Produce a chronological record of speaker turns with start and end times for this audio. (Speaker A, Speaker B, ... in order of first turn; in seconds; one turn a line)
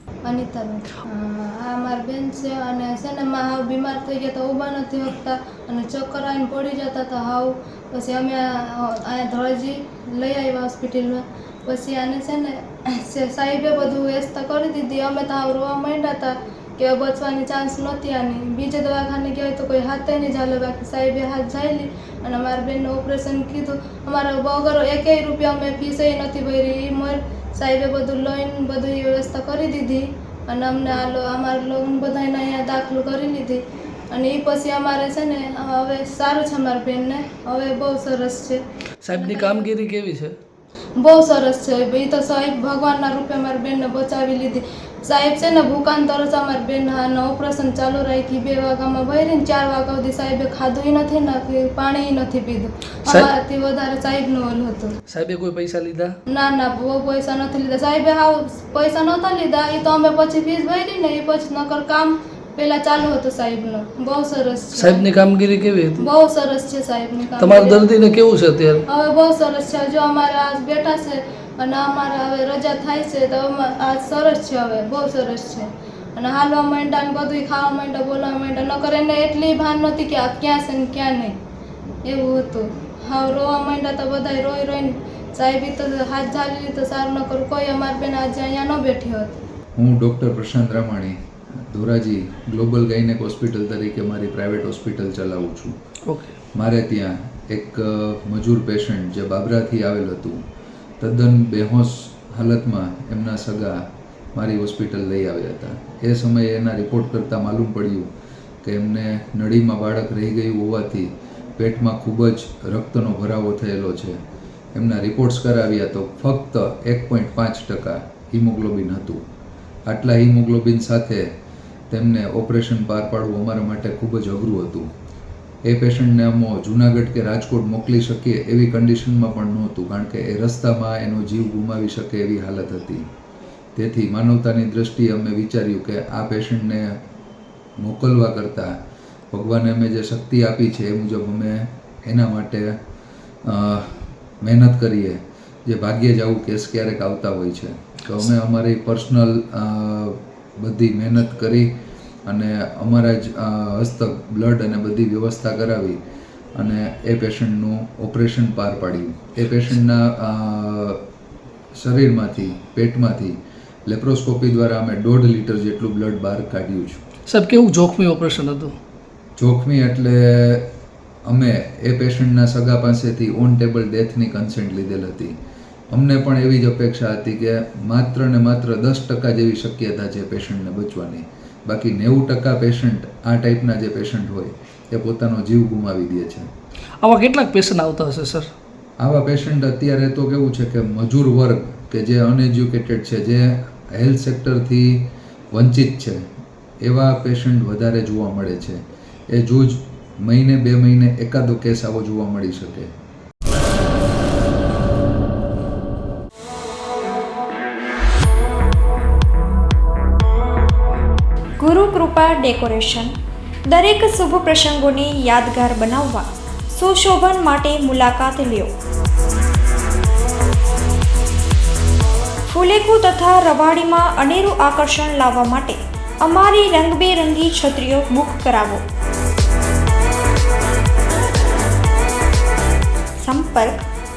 Speaker A: 0.2-38.6
Speaker B: 39.0-40.4
Speaker A: 39.1-39.7
Speaker A: 41.0-54.9
Speaker B: 55.1-56.1
Speaker A: 56.3-65.0
Speaker B: 64.8-66.0
Speaker A: 66.0-67.9
Speaker B: 67.4-68.8
Speaker A: 68.9-81.3
Speaker A: 82.0-89.4
Speaker C: 89.8-95.7
Speaker B: 96.1-96.3
Speaker C: 96.5-100.4
Speaker C: 101.0-103.8
Speaker C: 104.3-108.1
Speaker C: 108.6-114.2
Speaker C: 114.7-119.2
Speaker C: 119.9-121.3
Speaker C: 121.9-124.8
Speaker C: 125.7-133.1
Speaker C: 133.8-136.9
Speaker C: 137.8-138.7
Speaker C: 139.3-142.7
Speaker C: 143.4-151.7
Speaker C: 152.2-156.0
Speaker C: 156.5-161.0
Speaker C: 161.8-163.3
Speaker C: 163.9-167.0
Speaker B: 167.3-168.8
Speaker C: 169.4-170.7
Speaker C: 171.3-175.3
Speaker C: 175.9-186.5
Speaker B: 187.0-188.5
Speaker C: 189.0-196.2
Speaker C: 196.8-202.9
Speaker D: 211.6-218.7
Speaker D: 222.4-228.8
Speaker D: 233.2-233.8